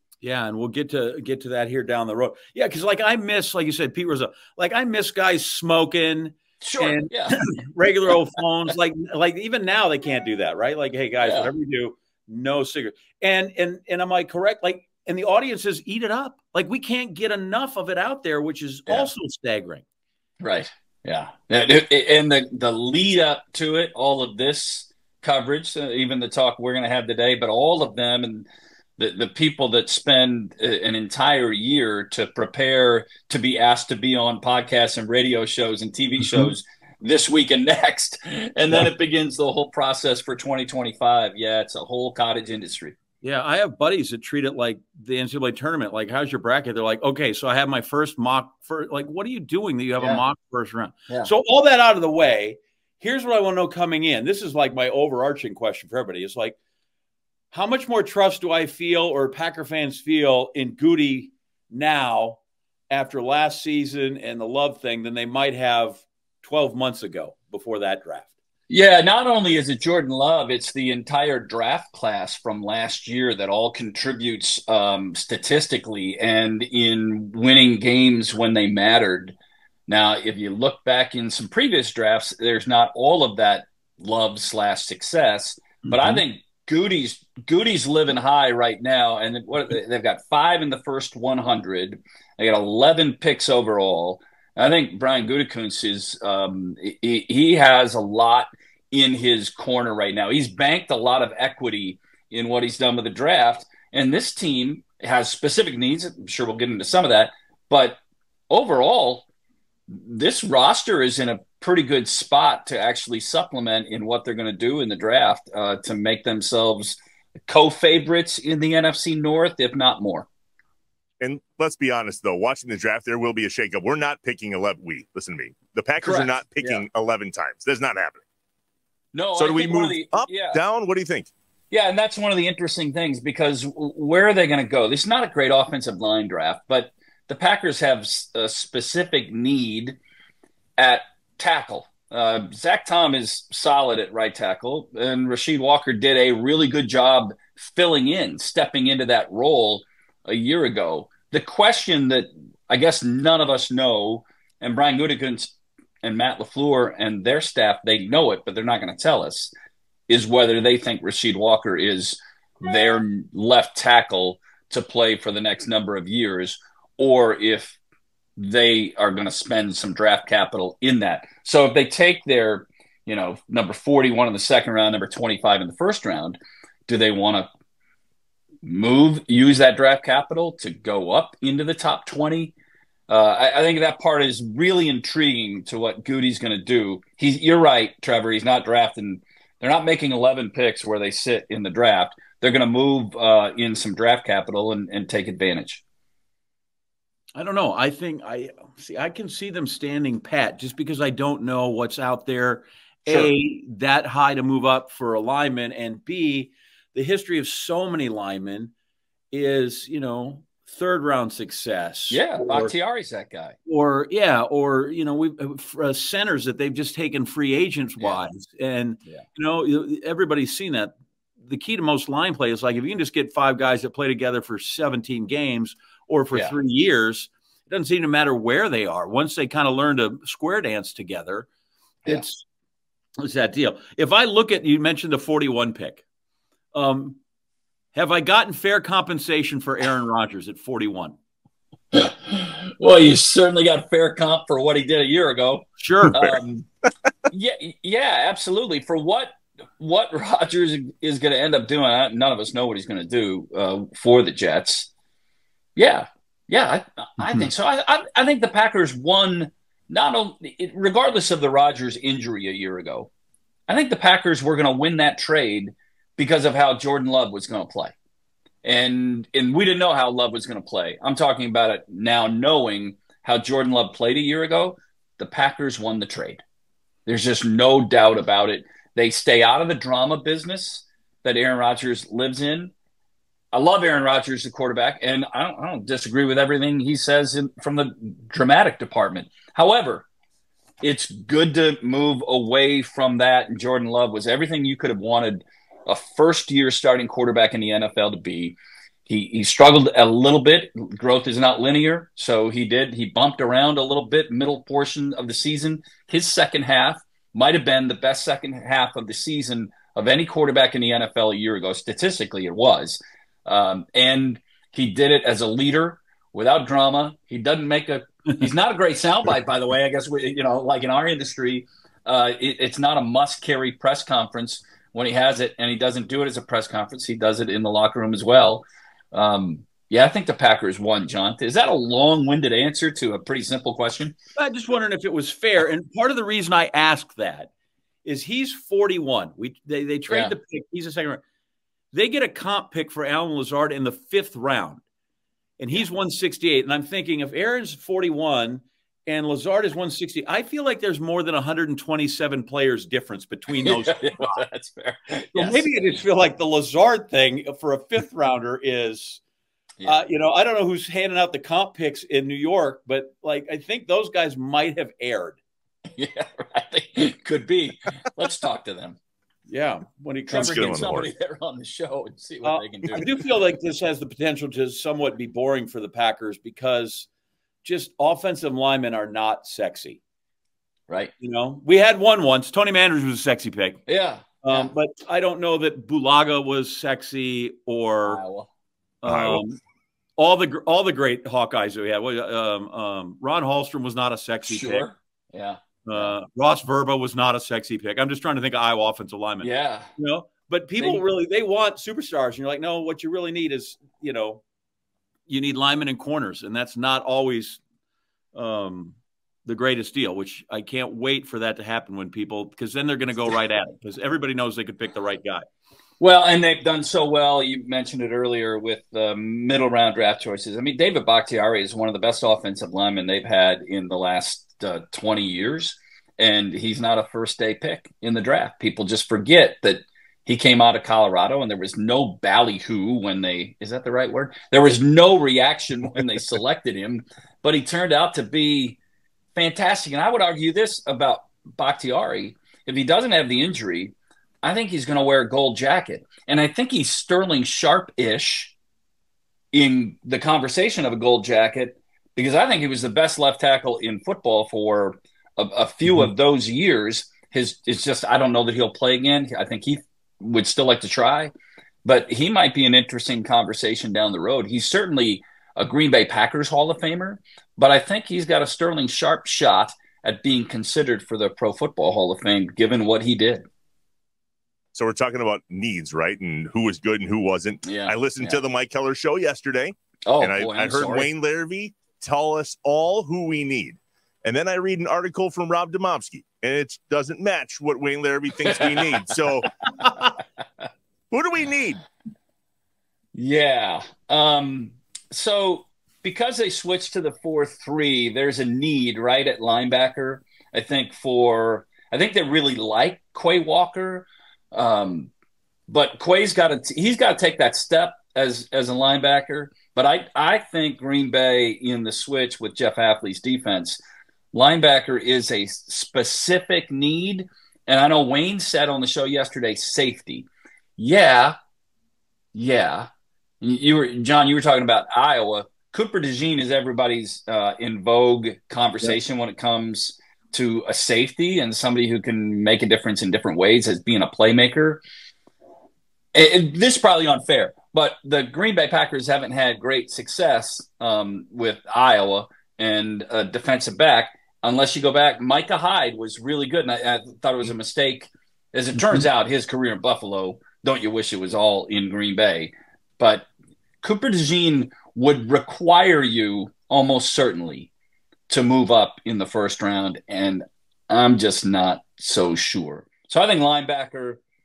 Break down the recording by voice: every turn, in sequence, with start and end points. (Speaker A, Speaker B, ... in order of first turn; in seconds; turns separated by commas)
Speaker A: 0.2-19.8, Speaker B: 6.6-7.5, Speaker B: 11.2-11.5, Speaker B: 20.4-28.5, Speaker B: 29.0-42.9, Speaker A: 43.2-56.5, Speaker A: 57.5-68.3, Speaker B: 68.7-79.3, Speaker B: 79.9-108.0, Speaker A: 85.8-86.2, Speaker B: 108.5-109.2, Speaker B: 109.9-120.2, Speaker C: 121.2-128.2, Speaker B: 126.0-126.8, Speaker B: 129.1-130.6, Speaker C: 129.3-131.3, Speaker B: 131.7-140.0, Speaker B: 140.8-159.5, Speaker B: 160.1-167.8, Speaker B: 168.4-177.5, Speaker B: 178.6-182.5, Speaker B: 183.1-195.8, Speaker A: 197.3-208.7, Speaker B: 203.1-203.3, Speaker A: 209.3-212.7, Speaker B: 212.1-213.5, Speaker A: 213.7-231.5, Speaker A: 232.1-232.4, Speaker A: 233.2-236.0, Speaker A: 236.7-237.2, Speaker A: 237.9-241.1, Speaker B: 241.9-246.7, Speaker A: 245.8-246.4, Speaker B: 247.3-254.9, Speaker B: 255.8-263.1, Speaker B: 263.7-267.9, Speaker B: 268.6-276.4, Speaker B: 277.1-282.7, Speaker B: 283.5-290.1, Speaker B: 290.8-334.1, Speaker A: 334.4-337.5, Speaker A: 338.0-341.2, Speaker B: 340.1-340.3, Speaker A: 341.9-344.8, Speaker A: 345.6-354.4, Speaker B: 353.5-355.9, Speaker A: 355.3-359.2, Speaker A: 359.8-365.4, Speaker B: 365.9-369.0, Speaker A: 369.5-370.8, Speaker B: 370.3-373.2, Speaker C: 370.3-371.1, Speaker A: 372.4-377.1, Speaker A: 377.6-380.0, Speaker A: 381.2-383.8, Speaker B: 383.9-384.7, Speaker A: 384.4-388.2, Speaker B: 388.0-388.5, Speaker A: 389.0-389.6, Speaker C: 389.1-389.4, Speaker A: 390.2-394.9, Speaker B: 394.5-396.1, Speaker A: 395.8-404.4, Speaker B: 399.4-399.9, Speaker B: 400.8-401.0, Speaker A: 405.3-407.6, Speaker A: 408.3-415.5, Speaker B: 416.0-438.8, Speaker B: 439.3-448.5, Speaker B: 449.5-461.3, Speaker B: 461.8-473.4, Speaker C: 474.7-489.5, Speaker B: 477.6-478.4, Speaker B: 480.1-481.1, Speaker B: 488.4-489.1, Speaker C: 491.1-491.8, Speaker B: 493.1-505.1, Speaker B: 505.7-513.8, Speaker B: 514.3-520.3, Speaker B: 520.8-521.4, Speaker B: 522.3-522.9, Speaker B: 523.4-534.8, Speaker B: 536.1-553.3, Speaker B: 553.8-557.7, Speaker B: 558.3-564.2